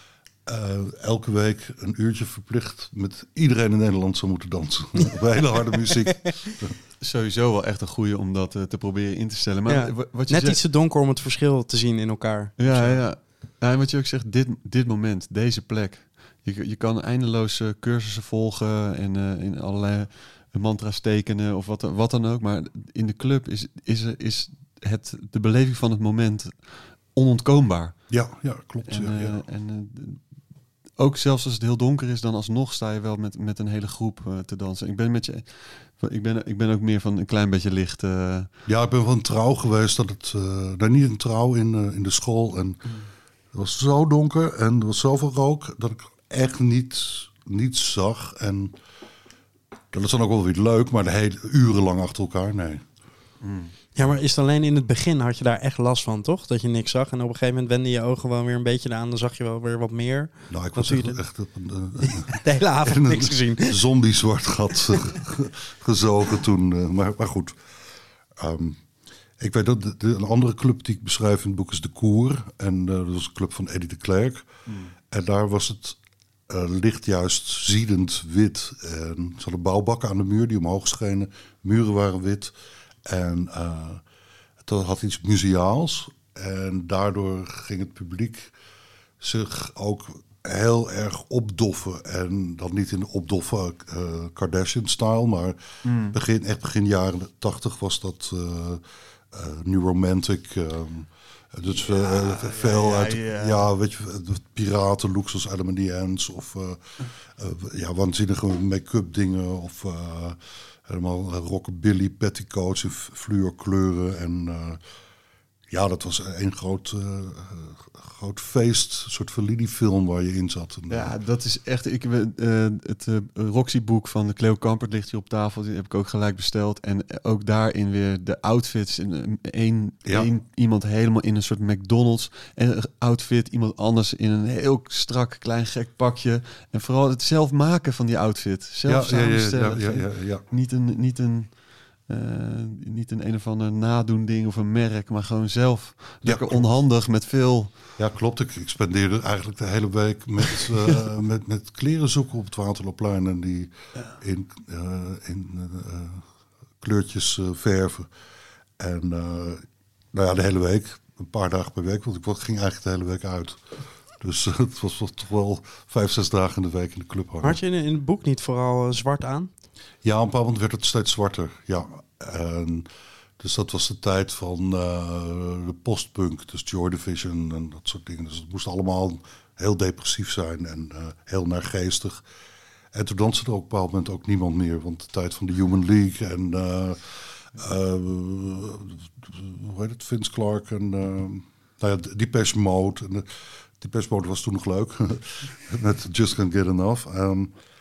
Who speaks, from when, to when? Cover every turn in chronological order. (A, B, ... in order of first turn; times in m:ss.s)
0:00.5-0:06.8 A
0:07.0-0:10.6 B
0:09.7-0:13.0 C
0:12.6-0:28.0 B
0:28.1-0:29.4 A
0:28.9-0:30.2 B
0:31.0-0:38.5 B
0:38.7-0:42.8 A
0:43.5-0:48.8 A
0:49.9-0:52.8 A
0:53.4-0:53.7 B
0:54.0-1:01.2 C
1:00.5-1:07.6 A
1:02.0-1:03.8 C
1:08.4-1:08.8 A
1:09.4-1:14.5 A
1:15.1-1:22.5 A
1:23.1-1:24.0 A
1:24.6-1:28.5 A
1:29.2-1:54.8 A
1:35.8-1:36.2 B
1:41.7-1:43.7 B
1:55.7-2:01.2 A
2:00.9-2:21.6 B
2:18.8-2:20.4 A
2:22.1-2:27.7 B
2:26.2-2:26.7 A
2:28.0-2:36.3 A
2:30.6-2:30.9 B
2:36.8-2:38.1 A
2:38.8-2:43.6 A
2:44.2-2:47.6 A
2:47.4-2:49.5 C
2:50.0-2:52.9 A
2:53.4-3:02.2 A
3:02.9-3:13.3 A
3:13.8-3:17.5 A